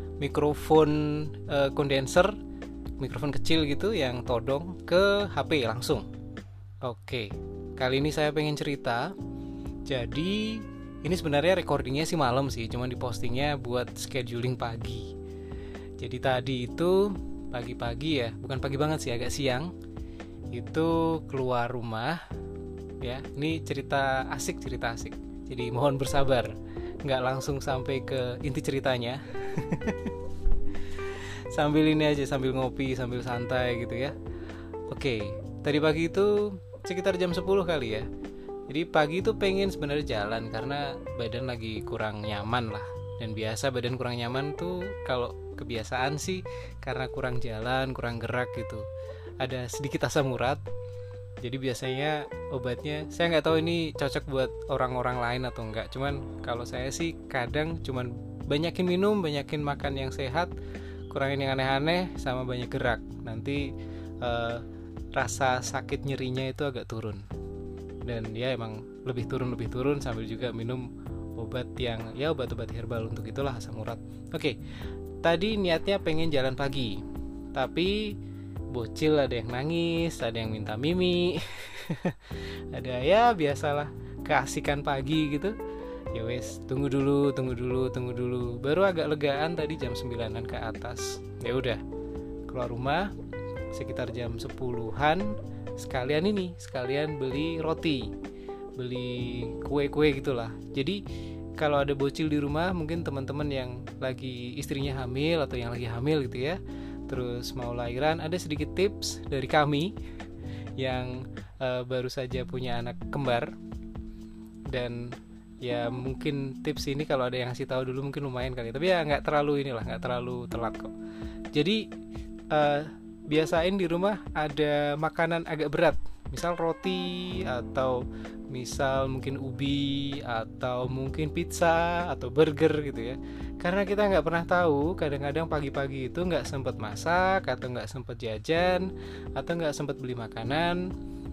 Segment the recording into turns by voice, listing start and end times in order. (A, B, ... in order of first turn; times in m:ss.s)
0:00.2-0:02.4 A
0:03.0-0:06.1 A
0:06.8-0:09.1 A
0:09.8-0:15.1 A
0:16.0-0:19.7 A
0:20.5-0:22.2 A
0:23.0-0:30.2 A
0:30.9-0:34.2 A
0:34.9-0:38.1 A
0:38.7-0:48.8 A
0:49.4-0:50.6 A
0:51.4-1:00.5 A
1:01.1-1:07.2 A
1:08.0-1:14.6 A
1:15.2-1:17.0 A
1:17.5-1:18.1 A
1:18.7-1:25.5 A
1:26.1-1:31.8 A
1:32.5-1:33.1 A
1:33.7-1:38.1 A
1:38.8-1:41.0 A
1:41.6-1:49.9 A
1:50.8-1:53.5 A
1:54.7-2:00.9 A
2:01.5-2:01.9 A
2:02.5-2:20.9 A